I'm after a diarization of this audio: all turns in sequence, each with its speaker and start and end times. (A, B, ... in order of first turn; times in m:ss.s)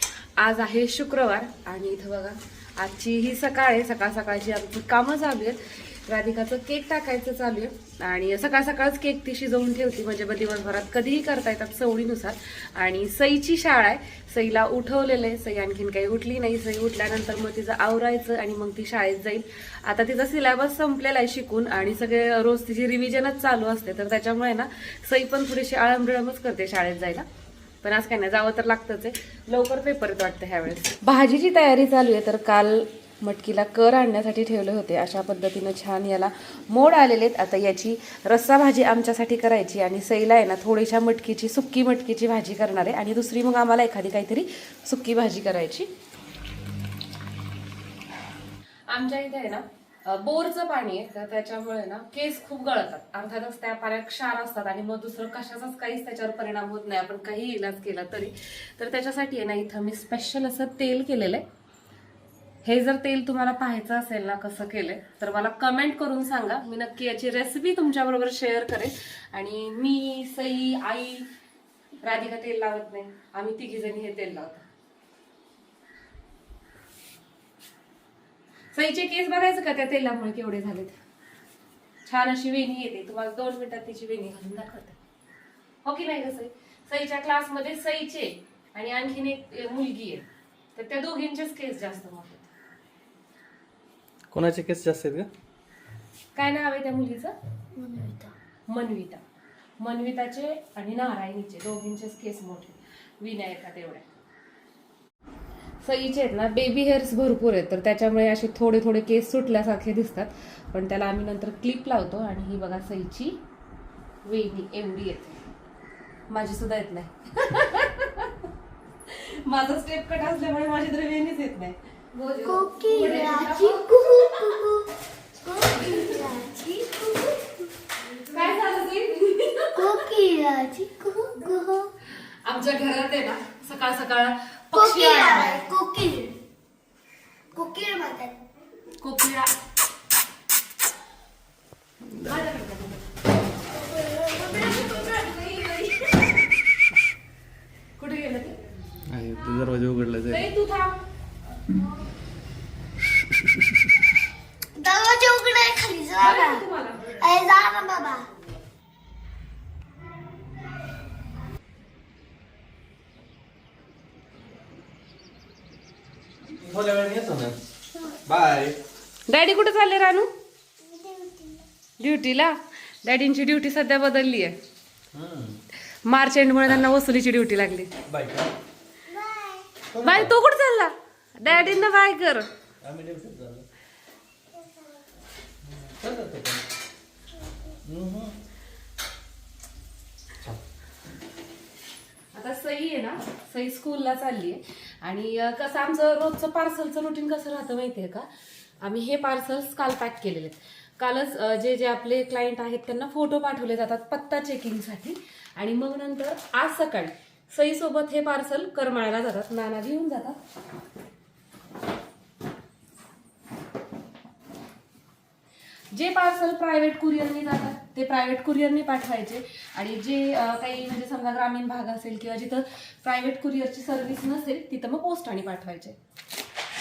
0:00.4-0:27.2 A
0:27.8-0:45.9 A
0:48.9-1:01.4 A
1:02.6-1:11.3 A
1:12.0-1:14.7 A
1:18.8-1:21.0 A
1:22.1-1:25.0 A
1:25.8-1:32.5 A
1:34.3-1:35.3 B
1:36.3-1:37.3 A
1:37.8-1:38.3 C
1:38.7-1:39.2 A
1:39.8-1:44.0 A
1:45.8-1:53.4 A
1:54.2-1:55.4 A
1:56.3-1:58.5 A
1:59.1-2:04.5 A
2:02.4-2:04.9 C
2:05.4-2:07.7 C
2:08.3-2:10.0 A
2:09.8-2:11.9 C
2:12.4-2:15.6 A
2:14.7-2:16.4 C
2:17.5-2:18.4 C
2:19.0-2:19.5 A
2:22.2-2:23.0 A
2:23.8-2:24.6 C
2:24.4-2:26.3 A
2:28.0-2:28.6 A
2:29.1-2:30.4 B
2:30.3-2:31.0 A
2:34.8-2:38.3 C
2:36.2-2:37.1 A
2:46.6-2:47.6 B
2:48.2-2:48.8 B
2:49.3-2:50.3 A
2:50.8-2:51.7 C
2:52.0-2:54.6 A
2:55.1-2:55.6 B
2:56.0-2:57.9 A
2:58.1-2:58.5 B
2:59.1-2:59.7 C
2:59.9-3:00.3 B
3:00.0-3:02.5 A
3:02.8-3:03.6 B
3:04.5-3:05.0 C
3:05.7-3:06.6 B
3:07.8-3:08.4 B
3:12.3-3:18.3 A
3:18.8-3:30.4 A
3:35.9-3:46.0 A